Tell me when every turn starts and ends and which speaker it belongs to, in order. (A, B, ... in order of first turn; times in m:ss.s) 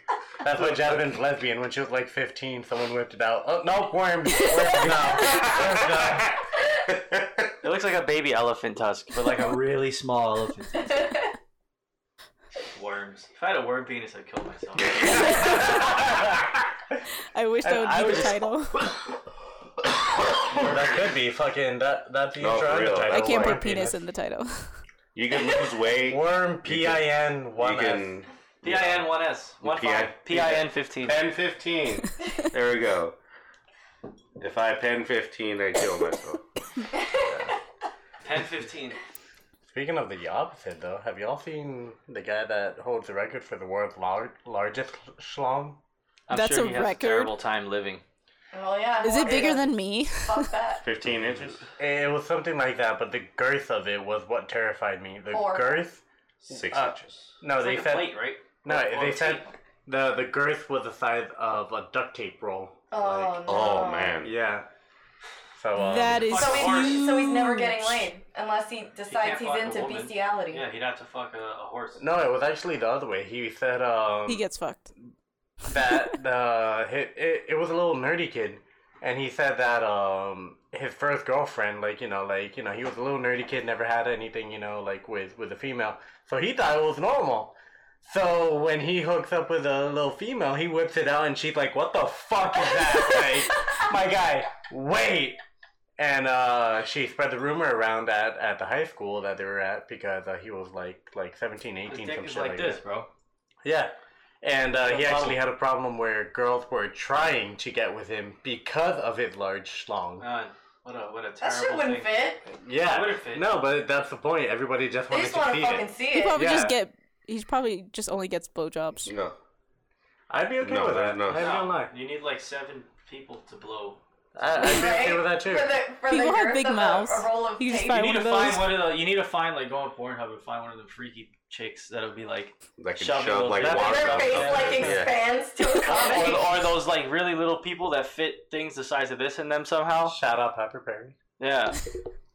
0:00.4-0:06.3 A
0:00.5-0:00.9 B
0:05.3-0:06.4 C
0:06.9-0:07.5 C
0:07.6-0:11.1 B
0:12.6-0:15.9 B
0:14.9-0:15.9 C
0:15.1-0:15.8 D
0:17.3-0:18.8 D
0:17.6-0:18.4 B
0:17.7-0:18.2 A
0:20.5-0:20.9 B
0:20.5-0:24.0 A
0:22.4-0:23.6 C
0:23.1-0:24.8 D
0:25.1-0:29.1 C
0:26.1-0:28.1 A
0:28.6-0:31.2 B
0:29.6-0:33.2 C
0:34.4-0:36.4 C
0:37.3-0:37.5 A
0:38.2-0:39.0 B
0:39.7-0:45.8 A
0:46.3-0:48.0 B
0:46.3-0:47.3 D
0:48.5-0:50.9 E
0:49.0-0:50.5 D
0:50.8-0:51.6 C
0:51.8-0:56.0 A
0:55.3-0:55.8 E
0:56.5-0:57.3 C
0:56.7-1:03.4 A
0:57.5-0:59.5 B
1:02.9-1:04.2 E
1:03.4-1:04.3 C
1:04.2-1:04.7 A
1:05.6-1:06.4 A
1:05.8-1:08.1 D
1:06.2-1:07.1 B
1:06.4-1:10.6 E
1:09.1-1:12.0 B
1:12.0-1:14.4 A
1:14.3-1:14.9 D
1:15.6-1:35.4 A
1:36.0-1:42.8 A
1:41.9-1:43.1 B
1:43.6-1:50.3 A
1:44.8-1:45.4 B
1:50.2-1:52.2 B
1:51.4-1:52.4 E
1:52.5-1:56.8 A
1:52.8-1:53.6 B
1:55.1-1:56.5 E
1:56.1-1:59.1 D
1:59.0-1:59.4 C
2:00.3-2:01.9 A
2:00.6-2:01.5 C
2:01.3-2:04.0 B
2:04.4-2:05.8 A
2:04.6-2:08.2 E
2:06.1-2:08.8 D
2:07.9-2:14.8 B
2:12.8-2:15.2 C
2:13.6-2:15.1 A
2:13.8-2:16.5 E
2:15.7-2:20.2 B
2:20.0-2:21.2 A
2:21.4-2:21.8 B